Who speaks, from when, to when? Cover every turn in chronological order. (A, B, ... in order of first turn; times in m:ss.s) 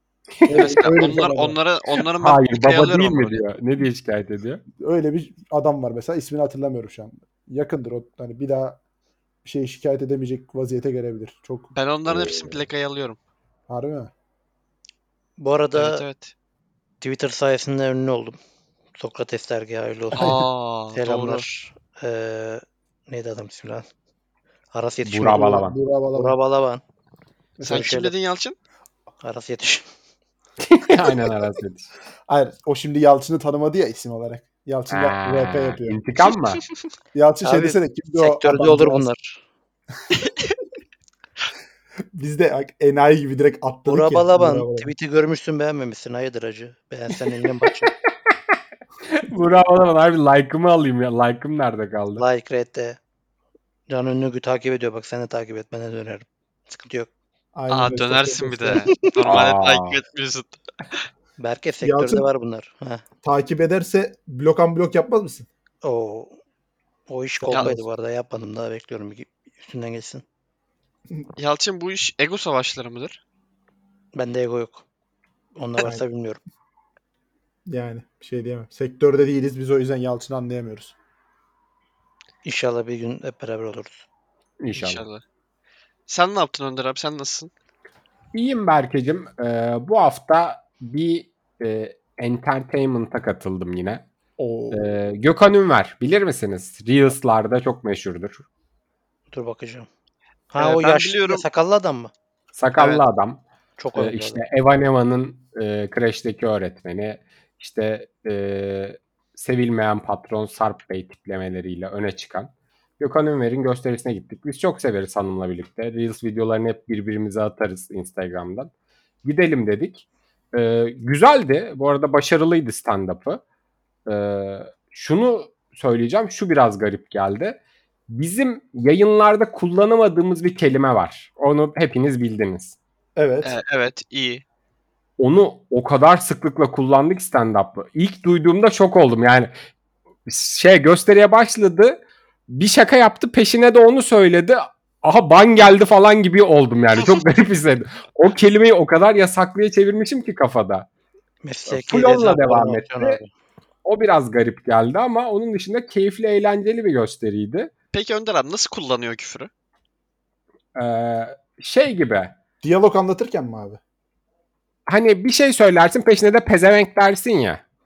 0:00.4-0:00.8 A
0:00.4-0:01.6 B
0:00.5-0:03.4 C
0:02.2-0:04.6 A
0:04.8-0:08.8 B
0:09.4-0:11.7 B
0:11.7-0:13.2 C
0:12.1-0:12.7 A
0:13.7-0:14.1 B
0:15.4-0:16.0 D
0:15.7-0:16.3 C
0:17.0-0:18.4 D
0:19.0-0:20.4 D
0:20.2-0:21.5 C
0:20.9-0:23.9 D
0:24.7-0:26.8 D
0:25.0-0:25.8 A
0:25.2-0:26.4 B
0:27.6-0:27.9 B
0:27.6-0:28.6 C
0:27.6-0:28.1 D
0:29.2-0:29.9 D
0:30.6-0:31.9 A
0:32.3-0:36.0 B
0:34.9-0:36.6 A
0:37.1-0:39.1 B
0:37.4-0:39.4 D
0:42.1-0:44.9 B
0:43.9-0:47.9 D
0:49.1-0:52.2 A
0:52.2-0:53.0 D
0:53.9-0:57.1 D
0:57.6-0:58.9 B
0:57.7-1:01.0 C
0:59.2-1:00.0 A
1:01.4-1:03.0 D
1:01.8-1:02.3 B
1:03.2-1:05.5 B
1:05.8-1:06.4 D
1:07.1-1:10.2 D
1:07.5-1:07.8 B
1:11.4-1:13.2 C
1:14.1-1:14.8 D
1:15.6-1:16.4 D
1:17.7-1:21.0 B
1:22.4-1:24.1 D
1:24.6-1:25.0 A
1:24.7-1:25.2 C
1:26.1-1:27.5 C
1:28.3-1:34.0 A
1:34.4-1:35.0 B
1:34.7-1:38.5 A
1:39.3-1:39.9 D
1:40.5-1:42.1 D
1:40.6-1:41.4 C
1:42.6-1:43.4 A
1:43.8-1:44.4 D
1:44.0-1:58.7 A
1:59.2-2:03.4 A
2:04.1-2:12.8 A
2:13.2-2:13.6 B
2:13.4-2:14.4 C
2:15.2-2:19.5 A
2:20.3-2:30.9 A
2:31.4-2:33.3 D
2:31.7-2:33.2 A
2:33.8-2:37.7 A
2:37.9-2:39.5 C
2:40.8-2:42.4 A
2:42.6-2:43.8 B
2:44.9-2:47.6 A